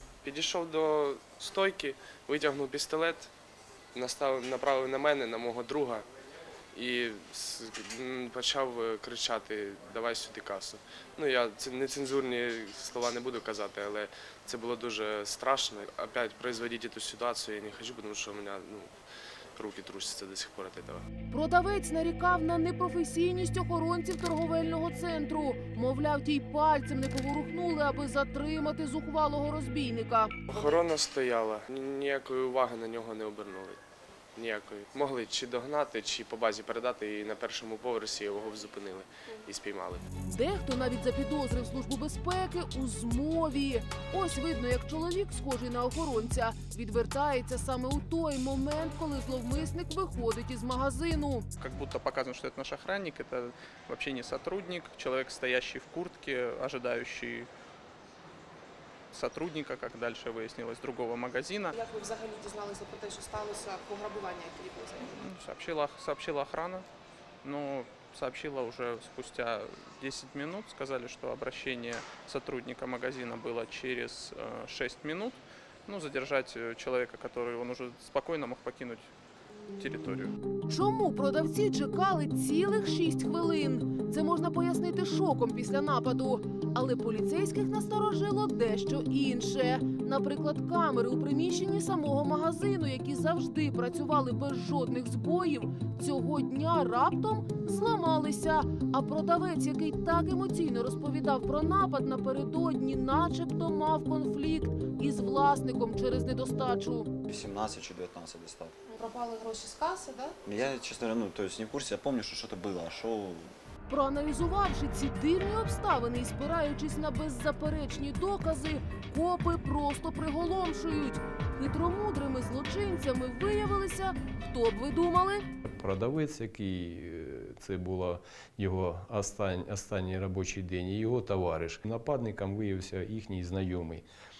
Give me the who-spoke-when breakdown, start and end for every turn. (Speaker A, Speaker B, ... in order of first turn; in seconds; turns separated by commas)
Speaker A: 0.2-3.3, Speaker A: 3.9-6.0, Speaker A: 6.7-18.9, Speaker A: 19.6-21.1, Speaker B: 21.3-30.4, Speaker A: 30.5-33.8, Speaker A: 34.4-40.0, Speaker B: 40.3-51.5, Speaker C: 51.6-57.5, Speaker C: 59.1-61.7, Speaker D: 61.7-64.9, Speaker C: 65.0-66.9, Speaker C: 67.4-79.1, Speaker C: 79.8-80.3, Speaker B: 80.7-107.1, Speaker E: 107.3-108.8, Speaker D: 108.9-110.3, Speaker E: 110.5-113.6, Speaker B: 113.9-125.5, Speaker F: 125.7-134.1